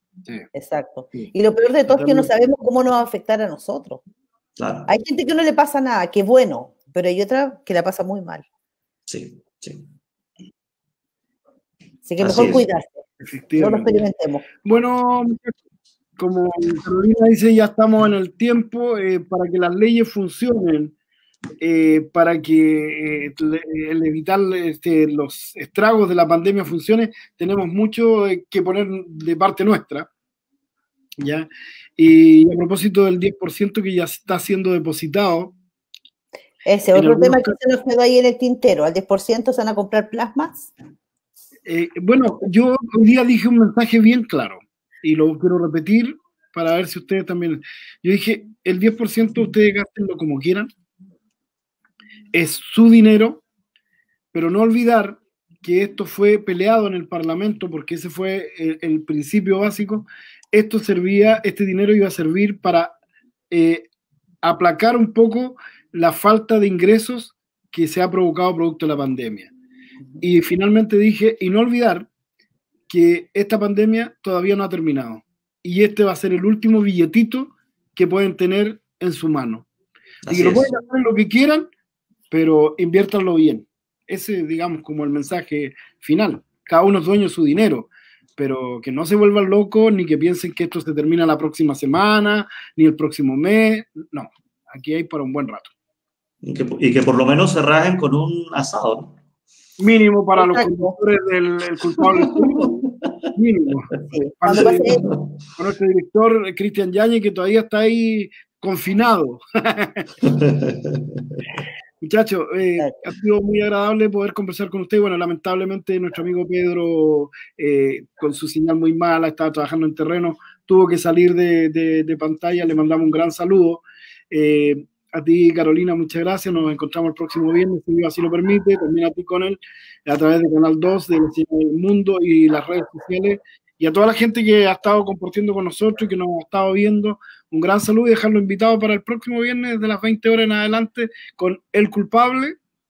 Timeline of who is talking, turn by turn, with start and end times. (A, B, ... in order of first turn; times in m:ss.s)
0:00.6-0:04.0 A
0:01.9-0:02.3 B
0:04.6-0:04.9 C
0:04.9-0:08.4 A
0:09.1-0:09.8 C
0:12.0-0:13.0 A
0:12.2-0:12.7 C
0:13.2-0:14.0 B
0:13.6-0:14.4 A
0:14.6-0:15.5 B
0:16.2-0:20.9 B
0:21.6-0:30.1 B
0:31.2-0:35.5 B
0:36.7-0:40.7 A
0:37.0-0:37.5 B
0:41.7-0:50.7 B
0:52.3-0:53.4 B
0:54.3-1:02.9 B
1:03.5-1:03.9 B
1:04.4-1:09.5 B
1:10.2-1:12.1 B
1:12.9-1:19.7 B
1:20.2-1:20.7 C
1:20.3-1:21.7 B
1:22.3-1:35.7 B
1:36.4-1:39.1 C
1:39.8-1:42.8 B
1:40.4-1:40.9 A
1:43.4-1:45.0 B
1:44.1-1:45.1 A
1:45.0-1:45.3 C
1:45.6-1:50.1 B
1:50.3-1:51.4 C
1:52.0-2:22.6 B